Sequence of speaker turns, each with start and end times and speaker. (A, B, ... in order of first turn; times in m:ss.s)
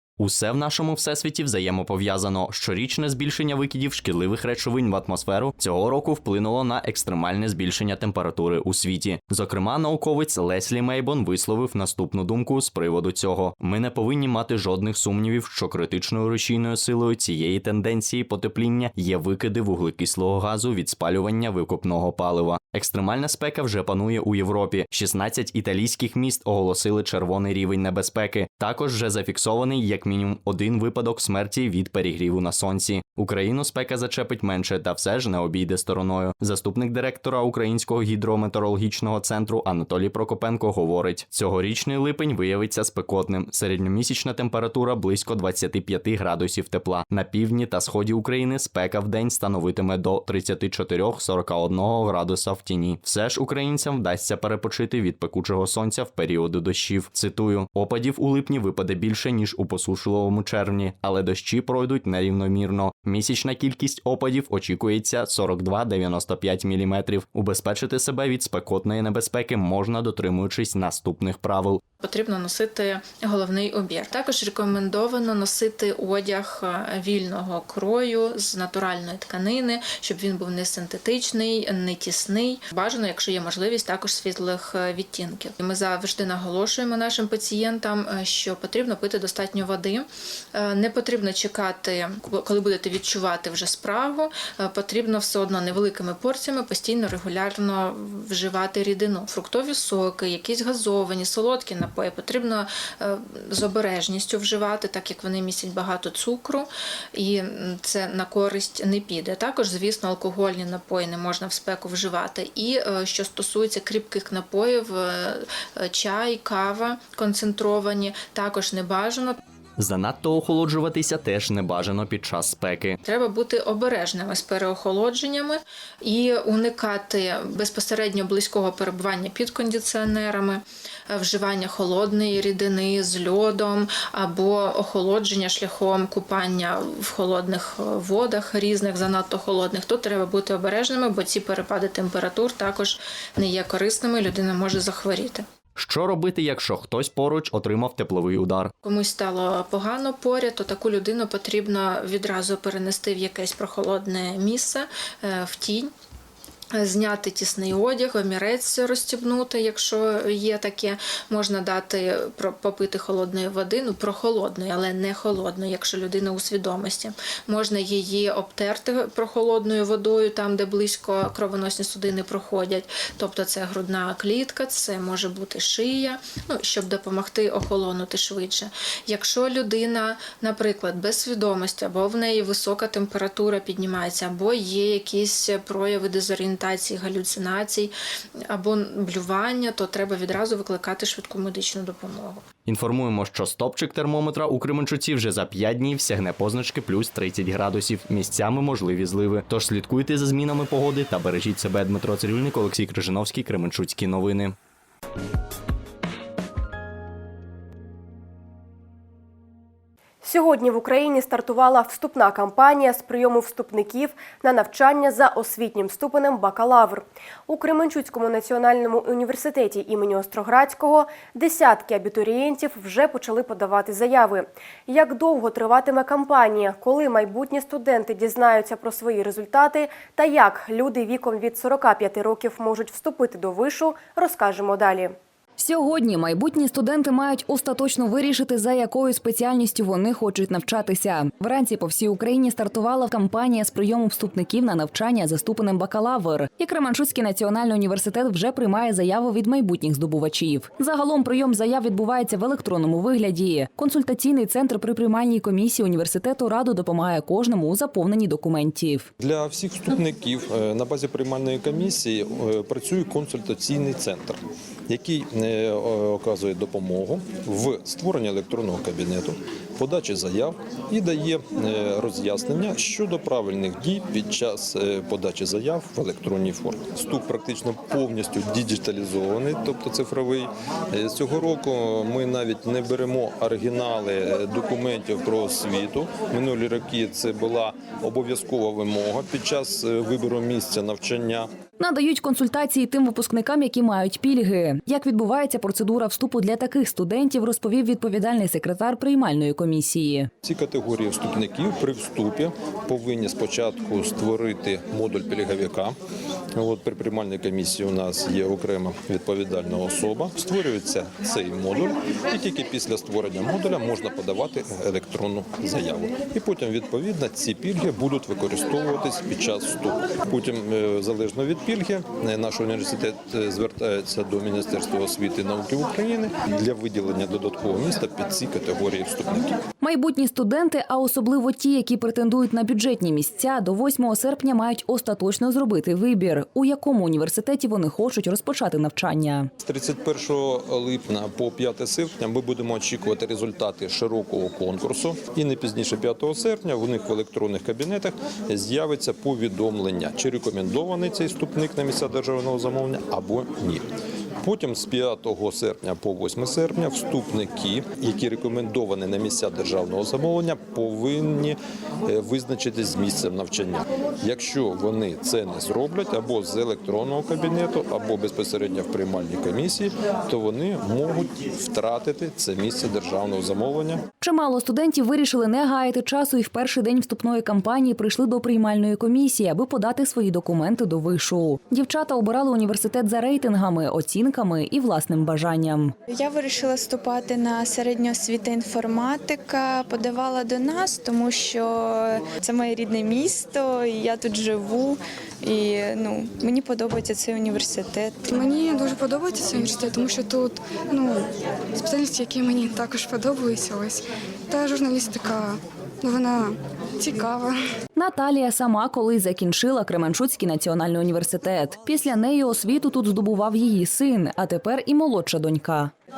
0:00.2-1:11.8 A
1:12.0-1:59.4 B
1:59.8-2:03.0 A
2:03.0-2:25.5 B
2:25.8-2:28.7 A
2:28.8-2:35.9 B
2:36.7-3:07.9 B
3:08.5-3:12.5 B
3:12.7-3:24.6 A
3:30.2-3:55.2 C
3:55.6-4:19.1 D
4:19.2-4:51.5 E
4:51.8-5:00.3 D
5:00.4-5:06.0 E
5:06.6-5:29.6 E
5:29.8-5:39.5 D
5:39.6-5:53.9 E
5:54.4-6:14.0 E
6:14.2-6:26.0 D
6:26.1-6:38.3 F
6:38.3-6:47.6 G
6:48.0-6:55.9 D